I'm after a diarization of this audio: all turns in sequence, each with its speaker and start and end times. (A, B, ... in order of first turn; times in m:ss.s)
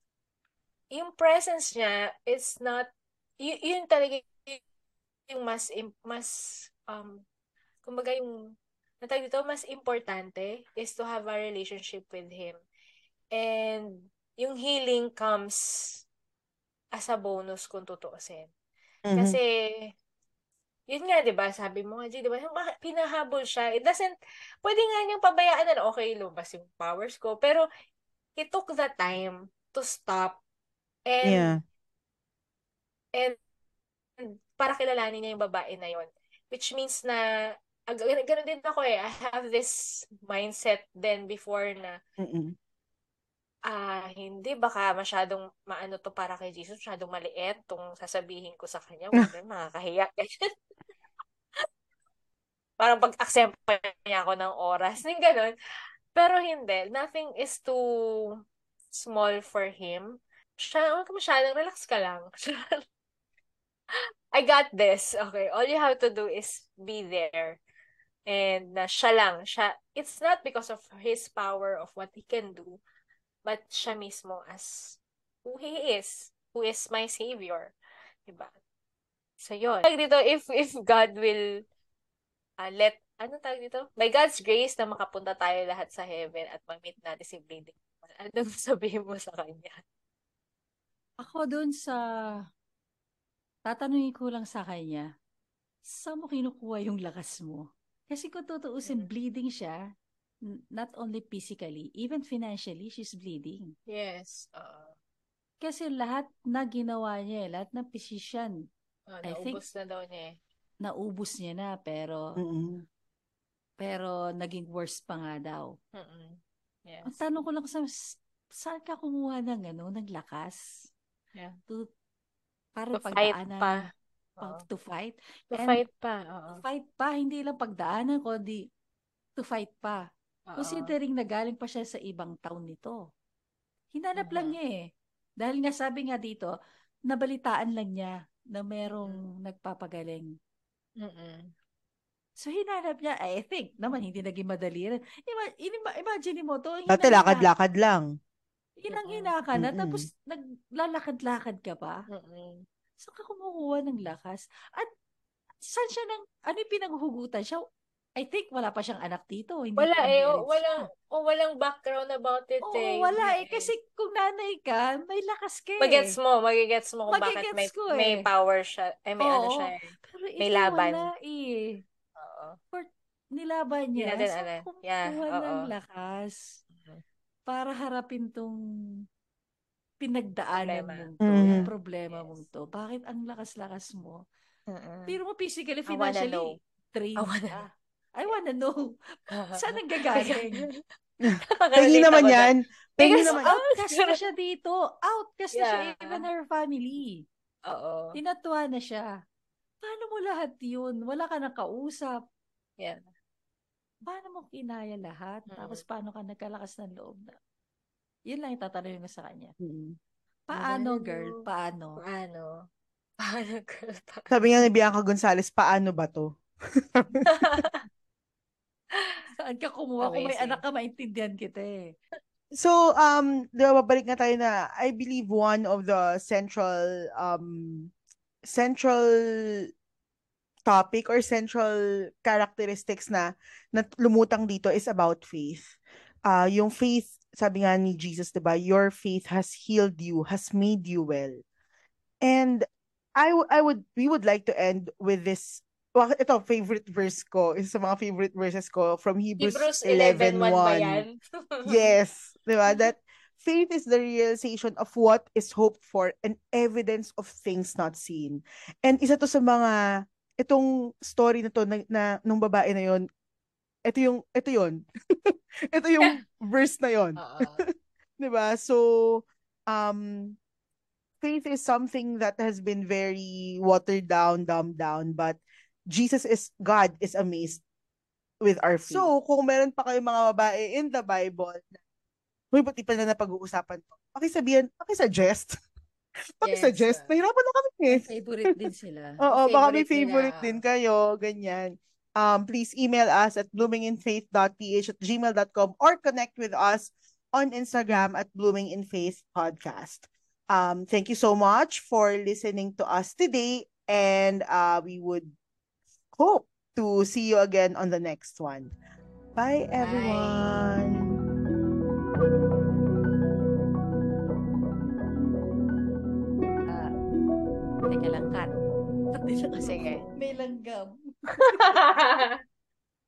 0:00.9-0:02.9 A
0:03.4-0:04.6 A
0:05.3-0:07.2 A
0:07.8-0:08.5 A
0:09.0-0:12.6 A
0:13.3-0:16.0 A
0:16.9-0:18.5 A
0:19.1-0:19.4 B
0:19.2-0:19.9 A
0:20.9-0:27.6 A
0:28.4-0:30.4 A
0:31.1-0:31.6 A
0:31.2-0:31.6 B
0:34.2-0:37.2 A
0:37.9-0:42.0 A
0:42.2-0:42.5 B
0:43.7-0:50.3 A
0:52.8-0:55.5 A
0:56.2-0:58.4 A
0:58.9-1:02.8 A
1:04.3-1:07.6 A
1:08.3-1:12.8 A
1:13.4-1:17.7 A
1:18.3-1:18.5 A
1:19.4-1:21.4 A
1:22.6-1:29.8 A
1:31.2-1:32.0 C
1:33.7-1:35.0 C
1:35.9-1:39.8 C
1:38.9-1:39.1 A
1:40.8-1:43.7 C
1:43.9-1:45.0 A
1:45.6-1:48.5 C
1:49.1-1:50.3 A
1:49.3-1:49.6 C
1:50.8-1:52.2 C
1:52.4-1:52.8 B
1:53.8-1:55.7 C
1:55.9-1:57.2 A
1:57.1-2:00.6 C
2:02.8-2:03.9 C
2:02.9-2:03.8 A
2:04.4-2:04.6 A
2:04.4-2:05.8 C
2:05.5-2:06.6 A
2:06.6-2:08.6 C
2:09.4-2:10.0 C
2:10.5-2:10.9 A
2:10.6-2:13.0 C
2:13.9-2:14.8 C
2:14.2-2:14.6 A
2:15.4-2:16.5 C
2:17.1-2:20.3 C
2:19.0-2:19.2 A
2:21.0-2:21.5 A
2:22.4-2:27.4 C
2:26.9-2:28.1 B
2:28.8-2:32.0 C
2:28.9-2:29.3 A
2:29.6-2:30.1 B
2:32.1-2:32.7 A
2:33.0-2:34.9 C
2:35.6-2:37.6 C
2:38.2-2:40.9 C
2:39.8-2:43.7 A
2:42.6-2:46.0 C
2:45.8-2:49.9 A
2:47.1-2:48.2 C
2:49.2-2:51.8 C
2:50.4-2:51.1 A
2:52.2-2:52.6 A
2:52.7-2:56.6 C
2:54.0-2:55.7 A
2:56.7-2:57.0 A
2:57.5-2:58.6 C
3:00.0-3:04.2 C
3:00.6-3:02.4 A
3:01.2-3:01.7 B
3:04.7-3:05.2 A
3:05.1-3:08.8 C
3:05.9-3:06.6 A
3:07.2-3:07.6 A
3:09.4-3:10.7 A
3:09.5-3:10.7 C
3:11.2-3:13.5 B
3:11.6-3:14.2 A
3:13.0-3:17.2 C
3:15.5-3:16.2 A
3:17.7-3:18.2 A
3:18.2-3:19.0 C
3:19.8-3:22.2 C
3:22.8-3:23.0 A
3:24.1-3:27.4 C
3:25.5-3:25.8 A
3:28.3-3:29.5 C
3:29.6-3:30.0 B
3:30.5-3:32.0 C
3:30.5-3:31.4 A
3:32.0-3:32.5 A
3:33.2-3:34.3 A
3:34.3-3:36.3 B
3:36.9-3:37.6 B
3:37.3-3:37.8 A
3:39.0-3:39.2 A
3:39.4-3:41.9 C
3:40.0-3:40.6 A
3:42.5-3:47.9 B
3:48.4-3:49.7 B
3:50.7-4:01.4 B
4:02.2-4:02.7 B
4:03.2-4:11.0 B
4:09.4-4:12.0 A
4:11.7-4:19.8 B
4:20.4-4:23.1 B
4:23.9-4:27.6 B
4:27.2-4:27.6 A
4:28.2-4:30.4 B
4:31.2-4:35.4 B
4:35.9-4:37.6 B
4:38.4-4:41.8 B
4:42.5-4:45.6 B
4:46.4-4:48.6 B
4:46.4-4:47.2 A
4:47.9-4:49.2 C
4:49.2-5:05.4 B
4:49.3-4:50.6 A
5:06.2-5:08.7 B
5:09.4-5:11.2 B
5:09.8-5:10.6 A
5:17.9-5:18.5 C
5:19.1-5:21.8 C
5:19.6-5:20.0 A
5:21.4-5:22.4 A